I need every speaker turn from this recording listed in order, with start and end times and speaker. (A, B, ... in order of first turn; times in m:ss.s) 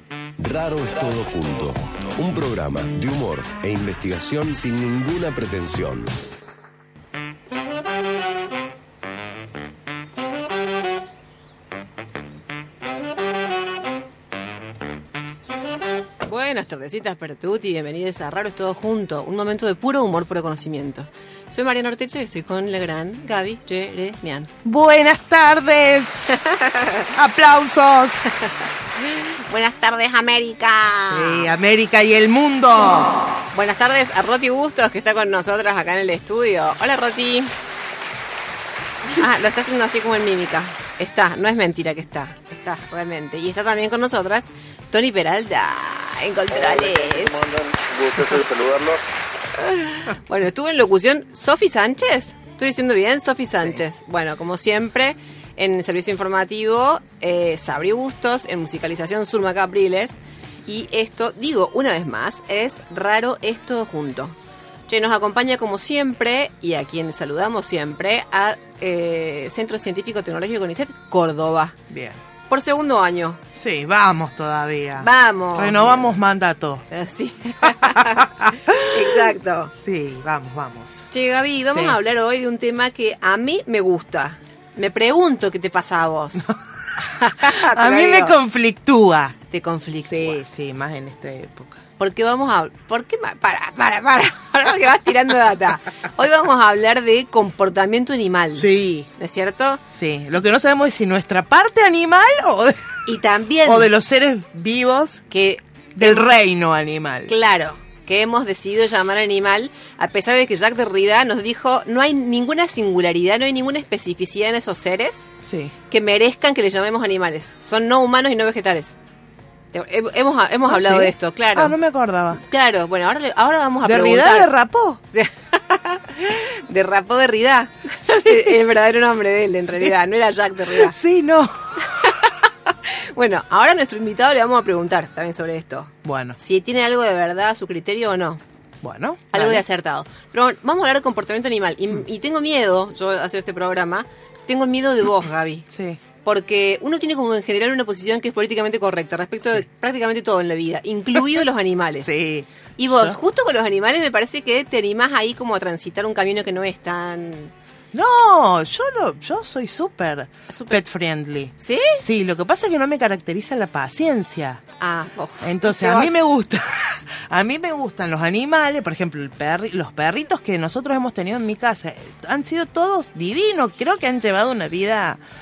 0:00.4-0:06.1 A
0:16.2-0:24.5 B
0:24.6-0:26.4 C
0:26.3-0:27.1 B
0:27.2-0:28.3 C
0:28.4-0:31.5 B
0:31.1-0:33.2 C
0:33.5-0:37.5 B
0:39.1-0:47.5 B
0:46.5-0:49.0 D
0:49.6-1:04.4 B
1:04.9-1:11.8 B
1:11.9-1:12.2 C
1:12.5-1:13.4 B
1:13.5-1:16.8 C
1:15.0-1:16.2 B
1:16.9-1:19.7 B
1:17.8-1:21.1 C
1:21.1-1:28.4 B
1:27.4-1:29.4 C
1:29.5-1:30.4 B
1:30.0-1:31.8 C
1:32.0-1:39.8 B
1:38.6-1:39.1 C
1:39.9-1:43.1 C
1:43.1-1:43.9 B
1:43.6-1:45.2 C
1:45.3-1:46.3 B
1:46.0-1:47.3 C
1:47.3-1:55.3 B
1:55.4-1:55.7 C
1:55.9-1:59.0 B
1:59.7-2:01.8 B
2:00.7-2:02.4 C
2:02.4-2:04.5 B
2:03.8-2:05.0 C
2:05.1-2:11.0 B
2:08.1-2:08.6 C
2:10.7-2:12.0 C
2:11.8-2:18.4 B
2:16.0-2:16.4 C
2:18.8-2:19.6 C
2:19.3-2:25.7 B
2:25.7-2:26.0 C
2:26.2-2:32.2 B
2:32.0-2:33.2 C
2:32.8-2:37.5 B
2:37.9-2:44.6 C
2:40.5-2:40.8 B
2:41.6-2:42.0 B
2:44.8-2:46.1 B
2:45.4-2:55.2 C